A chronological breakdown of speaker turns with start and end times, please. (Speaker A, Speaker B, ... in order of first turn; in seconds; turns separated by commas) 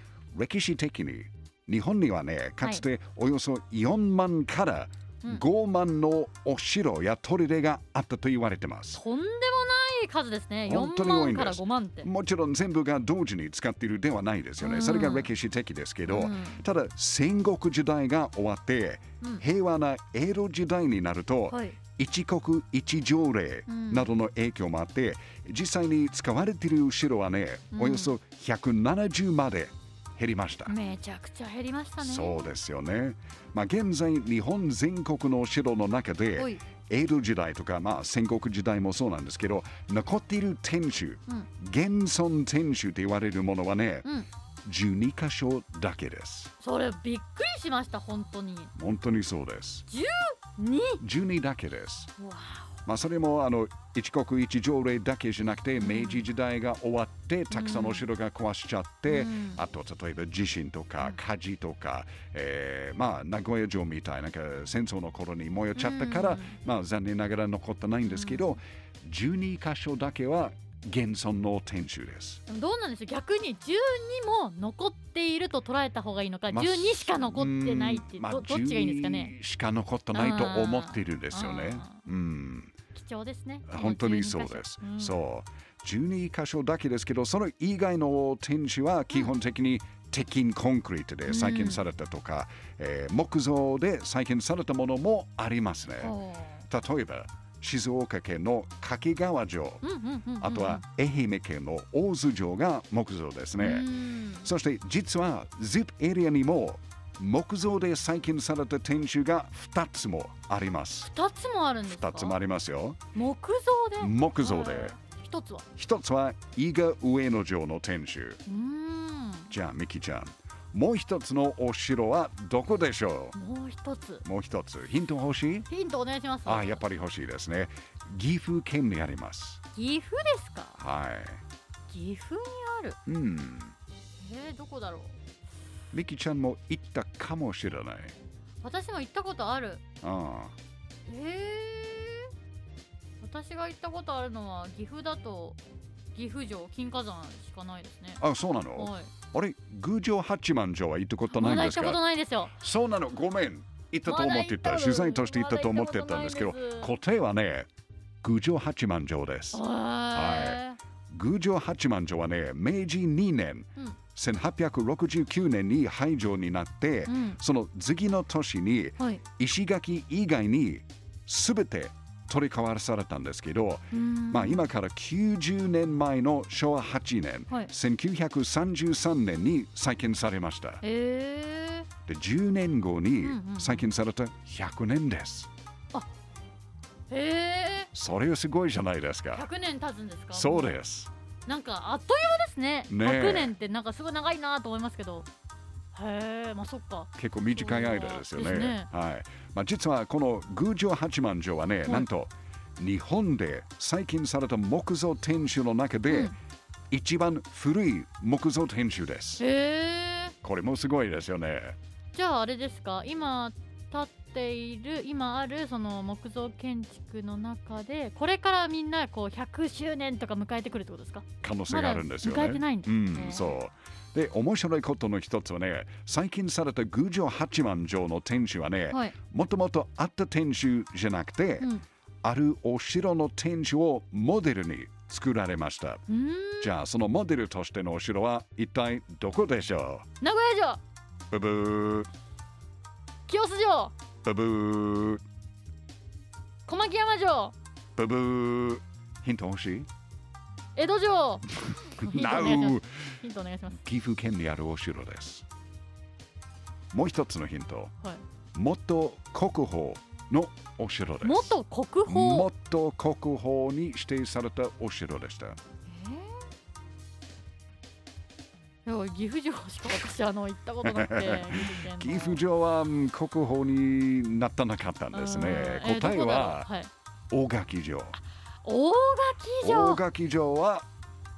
Speaker A: 0.3-9.0, Speaker B: 8.9-12.1, Speaker A: 10.7-30.8, Speaker B: 14.6-15.3, Speaker B: 16.1-16.6, Speaker B: 21.5-21.8, Speaker B: 23.7-24.1, Speaker B: 27.7-28.1, Speaker B: 30.7-32.5, Speaker A: 32.0-44.1, Speaker B: 36.4-36.6, Speaker A: 44.6-46.5, Speaker B: 46.6-48.7, Speaker A: 48.8-49.9, Speaker B: 49.9-51.0, Speaker A: 51.0-52.1, Speaker B: 52.2-52.7, Speaker A: 52.9-72.4, Speaker B: 55.8-56.2, Speaker B: 57.5-58.1, Speaker B: 59.1-59.6, Speaker B: 65.8-66.6, Speaker B: 68.0-68.5, Speaker B: 72.5-79.3, Speaker A: 76.5-82.8, Speaker B: 80.1-82.0, Speaker B: 82.9-85.2, Speaker A: 83.7-96.2, Speaker B: 91.3-91.8, Speaker B: 96.0-96.7, Speaker A: 96.7-99.8, Speaker B: 99.8-100.8, Speaker A: 100.4-111.1, Speaker B: 103.6-104.5, Speaker B: 111.0-112.4, Speaker A: 111.9-113.0, Speaker B: 113.1-115.7, Speaker A: 114.0-115.0, Speaker A: 115.8-118.4, Speaker B: 118.5-119.5, Speaker A: 119.5-123.4, Speaker B: 123.3-124.2, Speaker A: 124.2-125.7, Speaker B: 125.7-126.8, Speaker A: 126.5-129.6, Speaker B: 129.8-130.8, Speaker A: 130.8-131.4, Speaker B: 131.9-133.0, Speaker A: 133.1-133.8, Speaker B: 134.2-135.2, Speaker A: 135.9-138.2, Speaker B: 138.6-139.8, Speaker A: 140.0-140.6, Speaker B: 141.1-142.3, Speaker B: 143.2-145.6, Speaker B: 146.1-148.2, Speaker A: 148.2-152.0, Speaker B: 148.7-149.1, Speaker B: 151.3-152.6, Speaker A: 152.6-157.7, Speaker B: 154.1-156.9, Speaker A: 158.2-180.8, Speaker B: 159.5-160.8, Speaker B: 167.1-167.4, Speaker B: 173.9-174.7, Speaker B: 180.8-181.9, Speaker A: 182.1-185.5, Speaker B: 183.2-183.9, Speaker B: 187.1-187.9, Speaker A: 187.9-189.5, Speaker B: 189.3-190.7, Speaker A: 190.3-191.1, Speaker B: 191.5-195.3, Speaker A: 192.9-193.5, Speaker B: 195.9-198.9, Speaker A: 197.2-206.3, Speaker B: 206.1-206.3, Speaker A: 206.9-209.4, Speaker B: 209.4-210.4, Speaker A: 210.4-211.8, Speaker B: 212.1-223.5, Speaker A: 221.4-231.7, Speaker A: 232.2-236.0, Speaker B: 236.1-236.7, Speaker A: 236.6-240.1, Speaker B: 240.2-240.8, Speaker A: 241.3-242.1, Speaker B: 243.3-243.9, Speaker A: 244.2-245.2, Speaker B: 246.7-247.5, Speaker A: 248.0-249.9, Speaker B: 250.8-253.8, Speaker A: 251.8-253.1, Speaker A: 253.7-255.4, Speaker A: 256.9-257.9, Speaker A: 258.6-265.6, Speaker B: 261.2-262.5, Speaker B: 265.9-266.4, Speaker B: 268.9-272.4, Speaker A: 270.8-276.7, Speaker B: 275.1-276.9, Speaker A: 277.3-278.2, Speaker B: 278.6-280.0, Speaker A: 279.6-280.9